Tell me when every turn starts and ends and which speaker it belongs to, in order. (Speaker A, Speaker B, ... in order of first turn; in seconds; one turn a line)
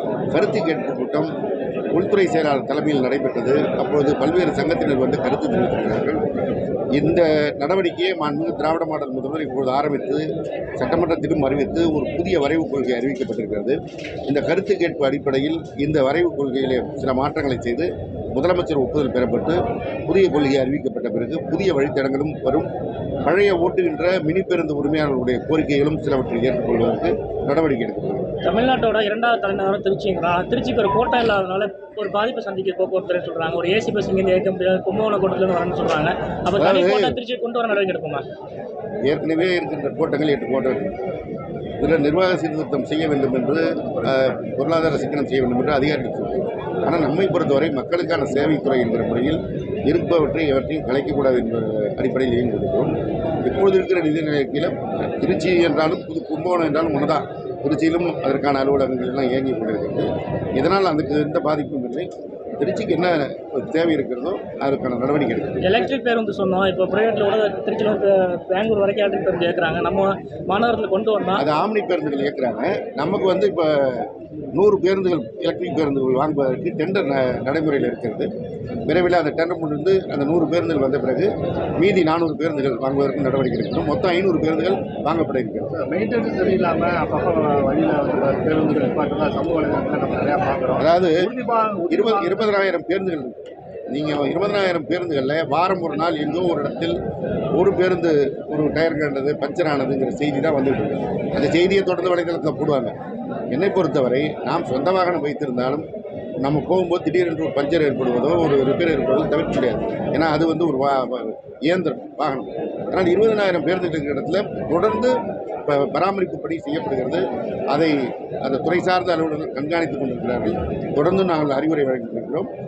Speaker A: 0.3-1.3
Speaker A: 1.9-6.2
Speaker A: 6.9-10.3
Speaker A: 10.8-22.7
Speaker A: 23.2-28.3
Speaker B: 28.4-38.2
Speaker A: 36.6-37.2
Speaker A: 39.0-40.9
Speaker A: 41.8-52.9
Speaker C: 43.9-44.3
Speaker A: 53.4-65.9
Speaker B: 65.6-71.5
Speaker A: 71.4-78.3
Speaker A: 78.9-85.7
Speaker C: 85.7-92.6
Speaker A: 90.8-91.3
Speaker A: 91.9-93.4
Speaker A: 93.9-97.0
Speaker A: 97.6-102.9
Speaker A: 103.5-105.9
Speaker A: 106.4-115.1
Speaker A: 115.7-122.5